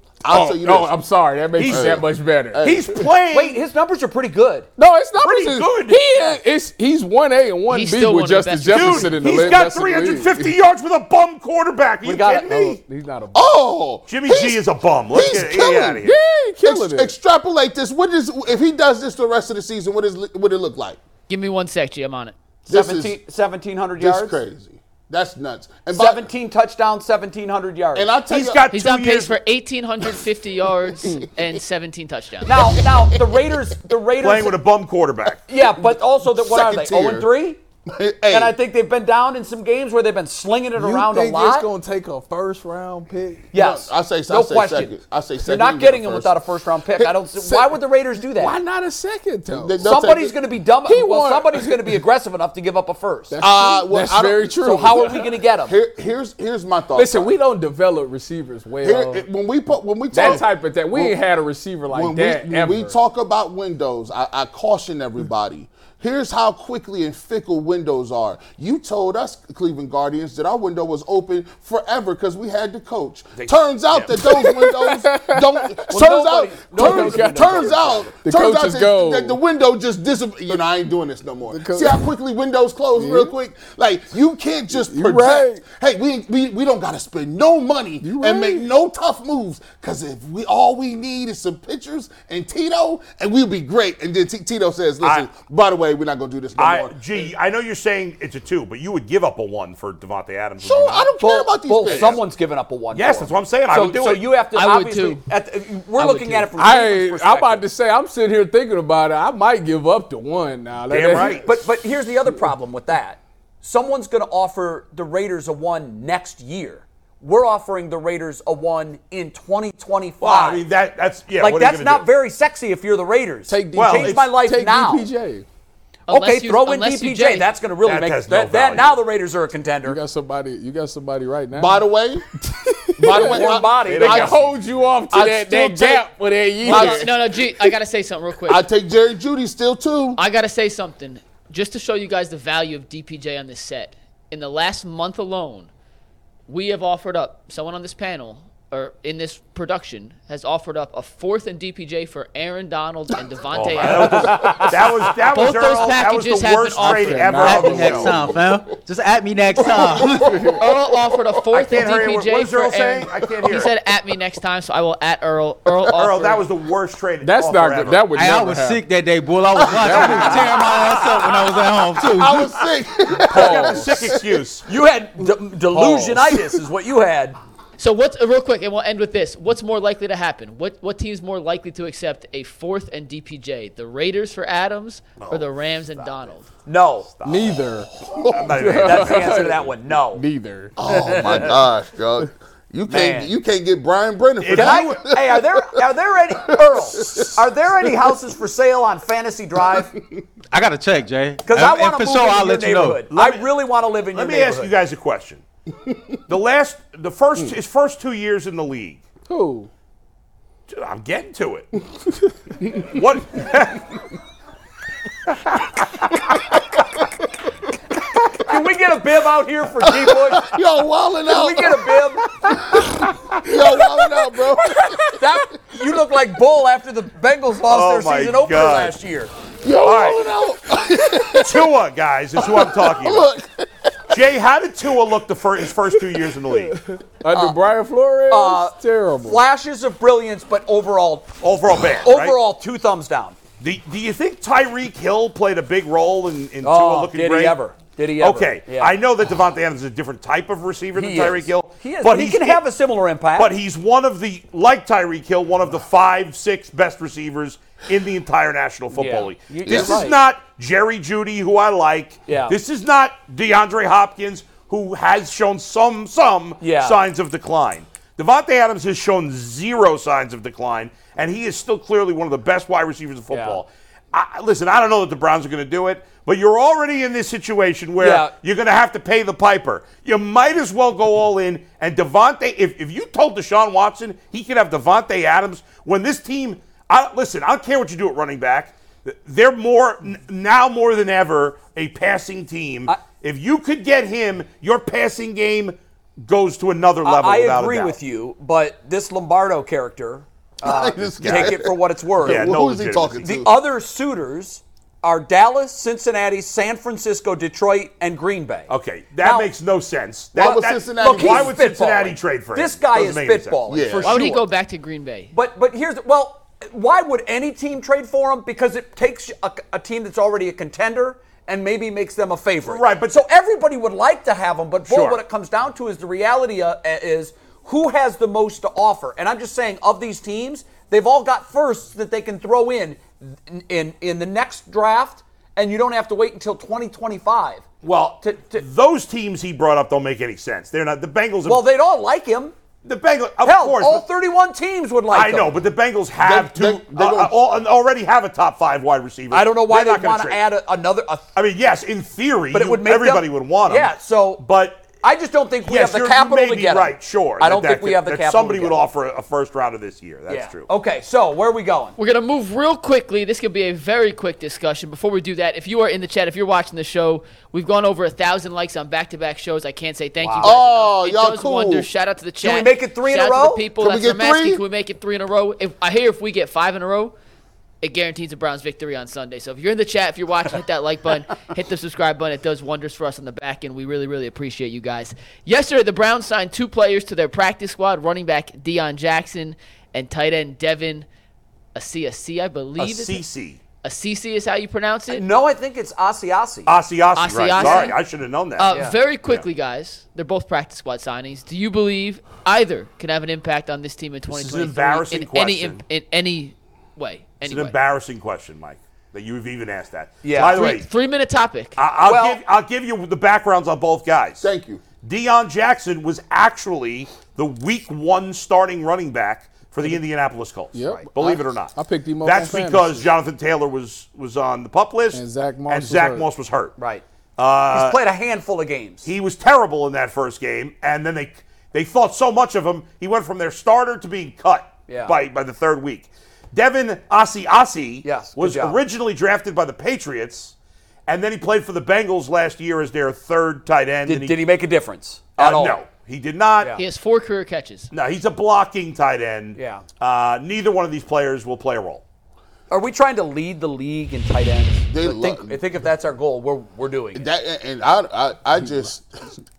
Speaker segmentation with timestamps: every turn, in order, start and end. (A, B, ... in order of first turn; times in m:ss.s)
0:00.2-0:01.0 A
0:00.3-0:02.8 B
0:01.6-0:02.0 C
0:01.6-0:03.0 A
0:02.6-0:03.6 C
0:03.3-0:04.7 D
0:04.8-0:10.5 B
0:05.2-0:06.2 C
0:05.3-0:05.6 A
0:07.7-0:09.2 E
0:08.7-0:12.8 C
0:12.0-0:12.6 D
0:12.5-0:13.5 B
0:13.3-0:16.1 A
0:14.1-0:16.2 C
0:16.0-0:17.1 B
0:16.6-0:21.0 A
0:21.3-0:22.4 E
0:22.6-0:24.4 D
0:22.7-0:23.2 A
0:24.0-0:26.3 A
0:25.9-0:28.1 D
0:27.9-0:28.6 A
0:28.3-0:29.4 C
0:28.7-0:32.8 E
0:32.4-0:34.6 D
0:34.2-0:35.4 C
0:35.5-0:37.6 D
0:36.2-0:37.3 A
0:37.9-0:38.6 A
0:38.3-0:41.7 D
0:40.7-0:43.5 B
0:43.5-0:48.6 D
0:43.5-0:46.4 A
0:47.3-0:50.0 B
0:49.5-0:50.3 A
0:49.8-0:53.4 D
0:50.8-0:52.0 B
0:53.3-0:55.3 B
0:53.4-0:57.3 A
0:54.6-0:55.8 D
0:56.9-0:59.2 B
0:58.8-1:01.2 A
1:00.1-1:03.0 B
1:01.9-1:36.9 A
1:13.4-1:14.1 C
1:14.2-1:15.9 B
1:15.9-1:18.1 D
1:16.7-1:19.4 B
1:21.5-1:22.0 B
1:23.0-1:23.3 B
1:24.8-1:25.6 B
1:28.0-1:28.6 B
1:35.0-1:35.3 C
1:36.6-1:41.1 C
1:40.6-1:42.2 A
1:41.2-1:47.6 D
1:41.8-1:42.2 C
1:42.9-1:44.2 C
1:44.5-1:45.2 E
1:46.0-1:46.4 E
1:46.1-1:51.5 B
1:50.9-1:51.4 C
1:51.4-2:00.6 D
2:00.2-2:02.1 C
2:01.4-2:05.1 D
2:03.5-2:05.4 B
2:03.7-2:04.3 C
2:06.1-2:07.5 E
2:06.1-2:10.0 D
2:07.8-2:09.0 C
2:09.8-2:11.8 B
2:11.5-2:12.2 A
2:12.4-2:17.1 B
2:13.0-2:14.4 A
2:13.1-2:14.3 D
2:13.8-2:14.8 C
2:15.1-2:16.0 A
2:16.6-2:17.5 A
2:16.6-2:18.6 E
2:18.4-2:20.2 A
2:20.2-2:25.7 E
2:26.5-2:34.7 E
2:33.5-2:38.3 C
2:35.3-2:37.7 E
2:36.8-2:38.4 B
2:37.4-2:40.2 F
2:39.5-2:40.7 A
2:40.0-2:40.6 B
2:40.6-2:46.4 E
2:41.5-2:43.7 C
2:45.9-2:48.2 C
2:47.2-2:48.8 B
2:48.1-2:52.4 F
2:49.6-2:50.6 B
2:49.7-2:51.4 C
2:52.0-2:54.1 A
2:53.1-2:54.2 B
2:53.3-2:54.6 C
2:54.6-2:57.4 D
2:55.7-2:56.6 B
2:57.8-3:06.5 E
3:05.2-3:06.2 C
3:06.6-3:07.1 D
3:07.2-3:07.7 C
3:07.2-3:08.0 B
3:08.0-3:08.7 A
3:08.3-3:09.5 C
3:08.5-3:10.8 B
3:08.8-3:10.2 D
3:10.8-3:15.7 A
3:10.9-3:11.6 D
3:12.9-3:13.3 D
3:14.4-3:15.0 C
3:14.5-3:19.9 D
3:16.4-3:17.4 A
3:20.5-3:23.0 F
3:21.4-3:24.7 D
3:23.1-3:23.5 C
3:24.0-3:25.4 C
3:26.3-3:29.0 C
3:29.3-3:29.7 B
3:30.7-3:31.8 C
3:32.6-3:34.0 C
3:35.5-3:36.4 C
3:38.4-3:40.5 D
3:39.8-3:45.1 A
3:41.3-3:42.2 D
3:44.8-3:45.1 B
3:45.1-3:49.3 D
3:47.6-3:49.0 C
3:49.6-3:51.7 A
3:49.8-3:50.3 C
3:51.2-3:53.3 C
3:52.4-3:53.7 A
3:54.1-3:56.8 C
3:56.7-3:59.4 B
3:58.3-4:01.4 D
4:01.4-4:02.4 C
4:02.0-4:03.4 D
4:03.6-4:07.6 C
4:06.6-4:09.0 D
4:08.2-4:12.6 C
4:10.9-4:13.5 D
4:13.4-4:58.0 C
4:18.9-4:20.2 D
4:22.3-4:22.6 D
4:26.6-4:27.0 D
4:33.3-4:33.6 D
4:38.0-4:38.3 D
4:57.0-5:02.6 D
5:00.6-5:03.5 A
5:01.1-5:01.6 C
5:02.2-5:03.2 C
5:03.2-5:09.5 D
5:08.7-5:13.6 C
5:10.3-5:11.5 A
5:10.4-5:14.4 D
5:13.7-5:14.1 A
5:14.0-5:15.3 E
5:15.3-5:38.6 D
5:22.6-5:23.2 C
5:24.9-5:25.2 C
5:37.8-5:41.7 C
5:41.4-5:42.5 D
5:42.8-5:44.0 C
5:43.4-5:45.6 D
5:45.1-5:50.4 C
5:46.2-5:47.4 A
5:49.3-5:51.3 D
5:51.3-5:54.9 C
5:52.5-5:58.8 D
5:55.6-6:00.7 C
6:00.3-6:02.0 D
6:02.0-6:17.1 E
6:10.2-6:10.5 D
6:10.4-6:11.9 A
6:12.4-6:13.6 D
6:13.8-6:14.6 A
6:17.8-6:31.1 E
6:31.7-6:33.2 E
6:32.8-6:33.6 C
6:33.8-6:35.2 E
6:35.1-6:36.8 D
6:36.7-6:38.7 C
6:37.2-6:38.0 E
6:37.5-6:37.9 D
6:38.6-6:47.8 E
6:38.7-6:39.0 D
6:44.3-6:45.8 C
6:47.4-6:50.9 C
6:50.2-6:50.6 D
6:50.5-6:51.8 E
6:51.8-6:54.5 C
6:52.0-6:52.4 D
6:54.4-6:54.8 A
6:55.0-7:06.7 C
7:00.7-7:03.1 B
7:05.1-7:06.3 B
7:06.8-7:07.0 D
7:07.4-7:08.0 C
7:07.7-7:09.1 D
7:09.0-7:20.5 C
7:14.9-7:15.2 D
7:18.0-7:18.8 D
7:21.1-7:24.4 C
7:24.0-7:25.8 D
7:25.4-7:26.7 C
7:26.6-7:26.8 D
7:26.8-7:27.9 E
7:27.9-7:32.0 C
7:29.6-7:29.8 D
7:32.7-7:37.3 D
7:34.9-7:35.6 A
7:37.1-7:39.3 A